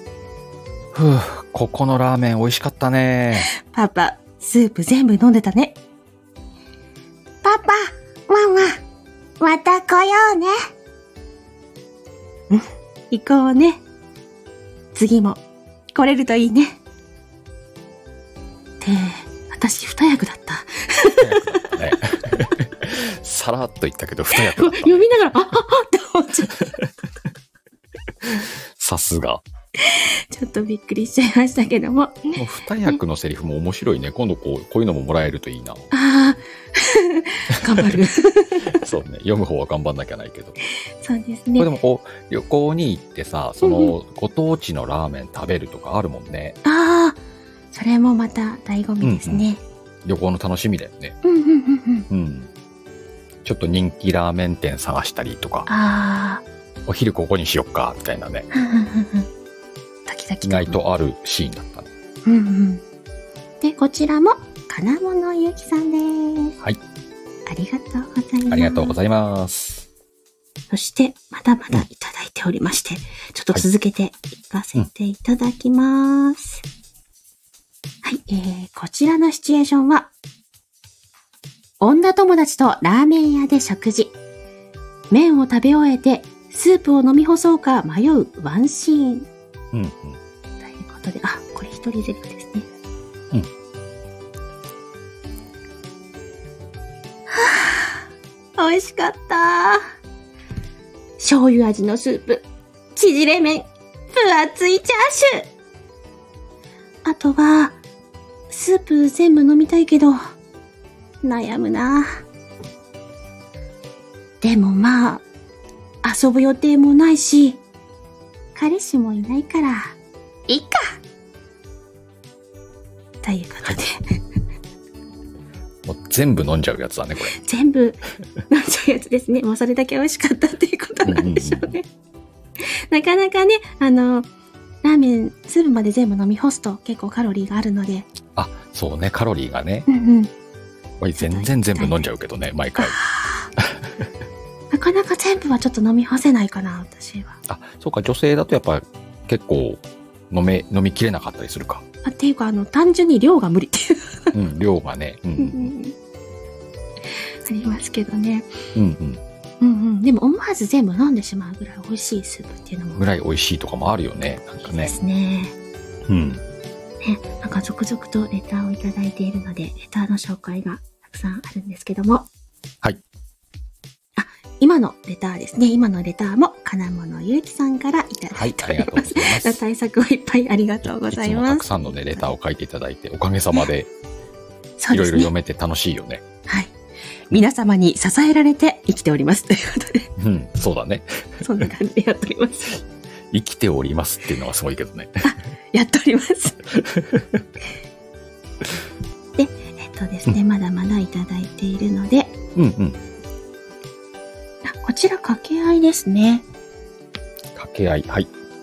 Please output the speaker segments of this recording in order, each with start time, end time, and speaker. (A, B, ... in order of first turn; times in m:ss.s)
0:00.9-0:03.5 A
0:03.3-0:05.8 B
0:07.4-0:08.8 B
0:09.4-0:10.5 B
0:12.5-0:13.8 B
0:14.9-0:15.4 B
0:15.9-0:16.8 B
0:18.8-0:21.7 B
0:21.2-0:25.0 A
0:24.3-0:26.6 B
0:28.8-0:29.4 A
0:29.8-0:33.0 B
0:32.4-0:35.8 A
0:35.9-0:38.8 B
0:38.7-0:40.6 A
0:41.0-0:41.7 B
0:41.6-0:46.6 A
0:43.6-0:43.9 B
0:46.6-0:47.2 B
0:47.7-0:49.6 B
0:49.0-0:49.4 A
0:50.0-0:51.2 A
0:51.2-0:52.1 B
0:52.1-0:52.5 A
0:53.4-0:55.7 A
0:55.7-0:56.4 B
0:56.8-0:58.5 A
0:58.5-0:59.3 B
1:00.0-1:00.8 B
1:00.4-1:01.9 A
1:02.2-1:02.8 B
1:03.6-1:06.5 B
1:07.5-1:09.0 B
1:08.5-1:09.9 A
1:10.7-1:16.6 B
1:18.0-1:20.1 B
1:21.8-1:24.1 B
1:25.1-1:29.3 B
1:29.7-1:30.2 A
1:30.6-1:32.6 B
1:37.3-1:39.8 B
1:41.2-1:45.5 B
1:47.0-1:47.8 B
1:48.5-1:50.2 B
1:51.2-1:52.2 B
1:54.4-1:55.2 B
1:56.0-1:57.6 B
1:58.5-2:00.0 B
2:00.5-2:01.0 B
2:03.2-2:04.2 B
2:05.8-2:07.3 A
2:07.2-2:11.8 B
2:11.0-2:11.8 A
2:12.6-2:14.3 B
2:14.8-2:18.1 B
2:18.4-2:19.9 A
2:19.9-2:20.3 B
2:21.0-2:23.0 A
2:21.2-2:22.0 B
2:22.7-2:23.5 B
2:24.7-2:27.4 B
2:27.5-2:31.8 A
2:32.0-2:34.3 B
2:34.3-2:35.7 A
2:35.4-2:35.9 B
2:37.1-2:38.5 B
2:38.7-2:39.2 A
2:39.6-2:43.0 B
2:43.0-2:44.9 A
2:44.6-2:45.5 B
2:46.1-2:46.4 A
2:47.0-2:52.3 B
2:54.2-3:02.3 B
2:58.3-2:59.6 A
3:00.8-3:03.9 A
3:04.8-3:05.3 B
3:04.9-3:06.2 A
3:06.5-3:06.7 B
3:07.3-3:10.1 B
3:10.2-3:11.4 A
3:11.4-3:12.8 B
3:13.3-3:15.2 A
3:15.2-3:16.8 B
3:16.8-3:17.4 A
3:19.4-3:22.3 B
3:22.6-3:23.0 A
3:24.6-3:26.4 B
3:27.5-3:28.3 A